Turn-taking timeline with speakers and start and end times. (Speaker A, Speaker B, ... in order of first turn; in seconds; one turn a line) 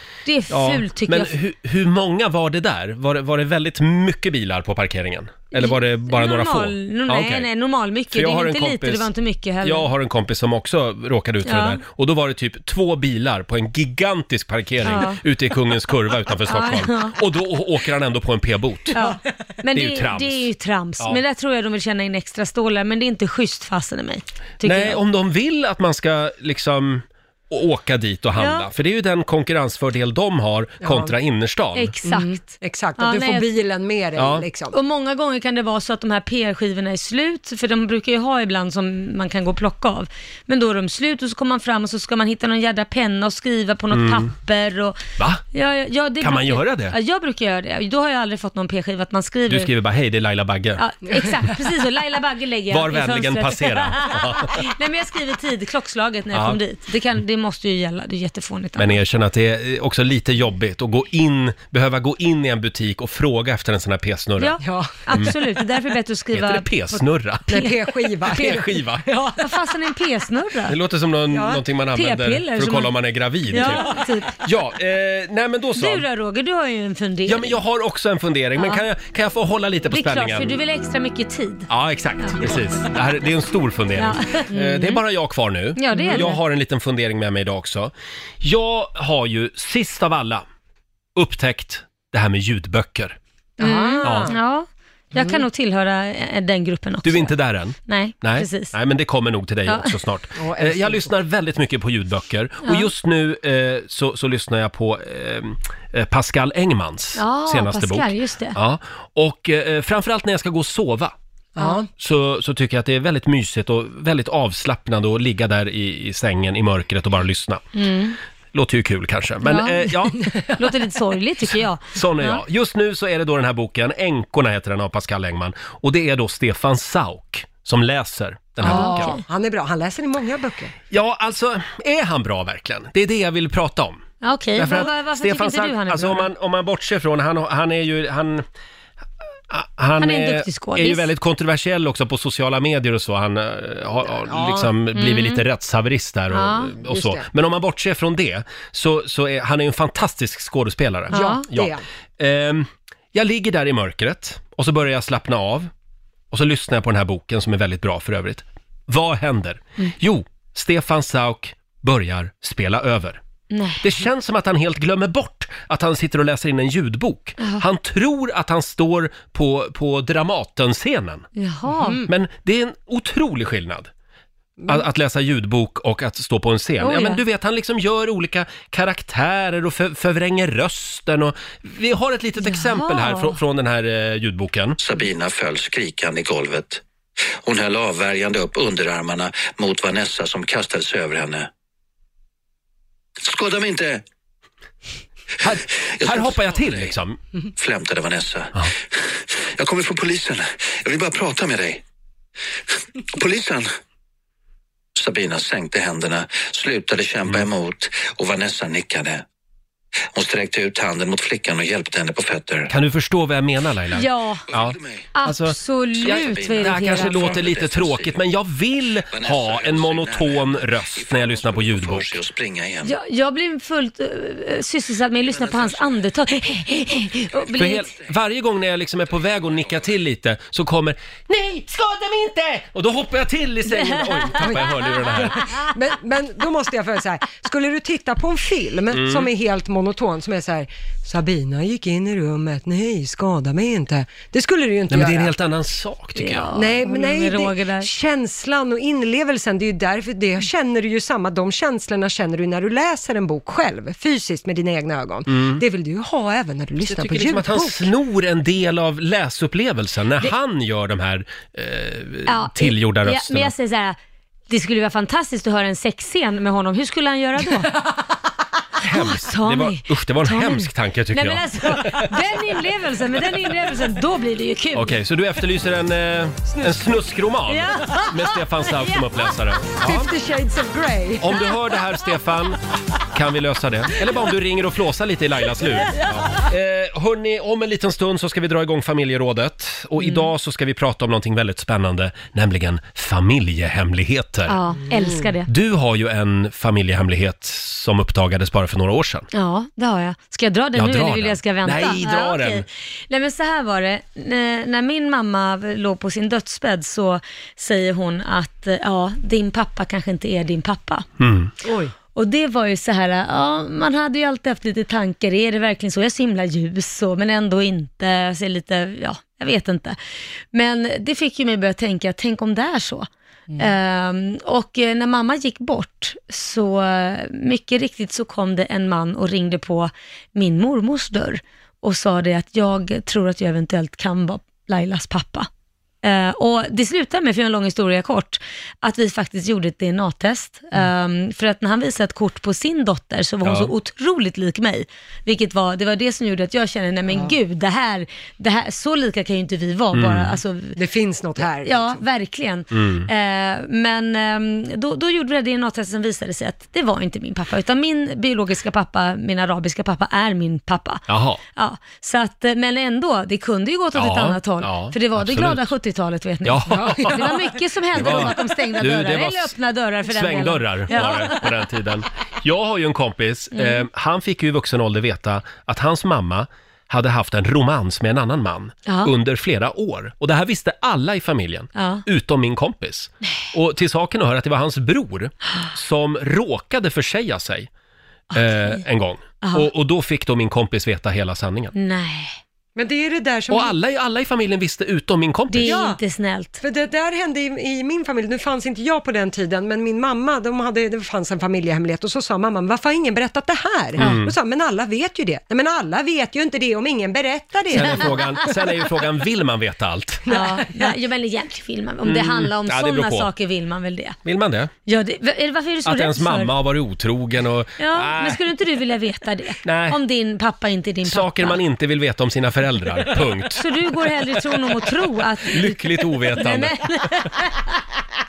Speaker A: 0.2-1.4
Speaker B: 0.5-7.5
Speaker A: 5.5-9.9
Speaker B: 8.1-9.1
Speaker B: 9.6-19.0
Speaker A: 11.4-11.8
Speaker A: 14.8-15.2
Speaker A: 16.4-17.2
Speaker A: 18.9-25.0
Speaker B: 19.7-21.2
Speaker B: 24.6-31.9
Speaker A: 28.4-28.6
Speaker C: 30.8-31.1
Speaker A: 31.7-33.5
Speaker C: 32.0-34.8
Speaker B: 34.2-34.4
Speaker A: 34.7-45.0
Speaker B: 43.9-44.3
Speaker B: 45.2-45.4
Speaker A: 45.5-49.7
Speaker B: 46.2-47.0
Speaker B: 49.5-50.8
Speaker A: 50.8-59.0
Speaker B: 52.7-54.6
Speaker B: 56.3-56.6
Speaker B: 58.8-64.6
Speaker A: 64.4-67.7
Speaker C: 64.6-65.3
Speaker B: 66.3-67.6
Speaker C: 67.5-69.7
Speaker B: 68.3-69.1
Speaker A: 68.3-68.6
Speaker A: 69.4-70.8
Speaker B: 70.7-76.1
Speaker C: 71.3-71.6
Speaker A: 71.9-73.0
Speaker A: 73.5-74.4
Speaker A: 75.8-77.6
Speaker B: 77.2-80.6
Speaker A: 78.6-78.8
Speaker A: 79.9-81.7
Speaker B: 81.7-90.4
Speaker A: 84.0-85.0
Speaker A: 85.8-86.4
Speaker C: 85.9-86.3
Speaker B: 91.1-93.2
Speaker C: 93.6-94.3
Speaker A: 93.6-98.8
Speaker B: 94.0-94.3
Speaker C: 95.1-95.4
Speaker B: 97.0-111.1
Speaker A: 99.7-100.0
Speaker C: 100.4-101.1
Speaker A: 102.6-102.9
Speaker A: 107.2-108.6
Speaker C: 111.6-111.9
Speaker B: 112.0-117.7
Speaker A: 117.7-118.2
Speaker B: 118.5-120.3
Speaker A: 119.4-122.4
Speaker B: 121.9-129.2
Speaker A: 128.6-129.2
Speaker C: 128.6-130.7
Speaker B: 130.9-138.4
Speaker A: 134.2-136.3
Speaker B: 139.5-155.7
Speaker A: 140.0-141.1
Speaker C: 144.2-144.7
Speaker A: 144.9-145.4
Speaker A: 146.3-146.8
Speaker C: 146.8-147.3
Speaker A: 151.1-151.4
Speaker C: 151.1-151.8
Speaker B: 156.3-163.2
Speaker A: 163.5-163.9
Speaker B: 163.8-171.3
Speaker A: 167.4-167.6
Speaker A: 171.4-172.1
Speaker C: 171.7-172.1
Speaker B: 172.1-173.9
Speaker C: 174.6-174.8
Speaker B: 174.7-184.8
Speaker A: 176.8-177.2
Speaker A: 182.4-183.4
Speaker D: 184.8-186.8
Speaker D: 187.4-191.5
Speaker D: 193.2-194.0
Speaker B: 195.4-197.2
Speaker D: 195.5-196.9
Speaker D: 197.6-201.8
Speaker D: 202.7-203.7
Speaker D: 205.0-209.2
Speaker D: 210.1-212.7
Speaker B: 212.7-222.2
Speaker A: 213.9-214.4
Speaker D: 214.5-215.1
Speaker A: 215.1-217.4
Speaker D: 215.9-218.2
Speaker D: 219.1-222.9
Speaker A: 222.8-227.9
Speaker D: 225.2-226.0
Speaker B: 227.5-235.5
Speaker D: 229.5-229.9
Speaker A: 233.8-234.6
Speaker C: 234.3-245.3
Speaker B: 238.9-239.3
Speaker B: 244.9-246.5
Speaker A: 246.2-247.9
Speaker C: 246.5-257.9
Speaker B: 255.3-255.6
Speaker B: 256.8-263.5
Speaker A: 262.2-264.0
Speaker A: 264.5-267.7
Speaker B: 268.8-272.1
Speaker A: 268.9-275.0
Speaker B: 274.7-280.1
Speaker C: 276.5-276.8
Speaker A: 277.5-279.3
Speaker C: 279.8-281.4
Speaker B: 281.2-282.6
Speaker B: 283.1-294.6
Speaker A: 290.0-290.3
Speaker A: 294.5-295.5
Speaker B: 295.4-299.3
Speaker A: 299.3-311.0
Speaker B: 300.7-302.6
Speaker B: 311.2-311.5
Speaker C: 311.6-311.9
Speaker A: 312.1-320.0
Speaker A: 320.5-335.5
Speaker A: 336.0-350.8
Speaker B: 343.4-343.7
Speaker C: 347.1-347.4
Speaker B: 349.9-350.4
Speaker C: 350.8-352.0
Speaker A: 351.6-371.6
Speaker B: 352.7-353.1
Speaker B: 361.1-361.4
Speaker B: 363.9-365.7
Speaker B: 366.4-367.4
Speaker C: 366.7-367.4
Speaker B: 367.9-387.7
Speaker A: 373.5-373.9
Speaker A: 378.9-379.1
Speaker A: 381.7-382.0
Speaker B: 388.3-391.7
Speaker A: 388.3-388.8
Speaker A: 389.4-389.7
Speaker A: 391.7-392.4
Speaker C: 392.7-393.7
Speaker B: 393.5-395.8
Speaker A: 395.5-396.6
Speaker C: 395.6-396.0
Speaker C: 396.6-408.2
Speaker B: 404.0-404.3
Speaker B: 407.7-410.3
Speaker C: 410.3-410.9
Speaker A: 410.3-414.2
Speaker B: 412.0-413.3
Speaker B: 414.2-414.7
Speaker A: 414.9-416.5
Speaker B: 415.9-418.4
Speaker A: 417.8-421.6
Speaker B: 419.6-420.0
Speaker B: 421.0-423.7
Speaker A: 423.4-427.8
Speaker B: 424.3-424.9
Speaker B: 425.4-427.3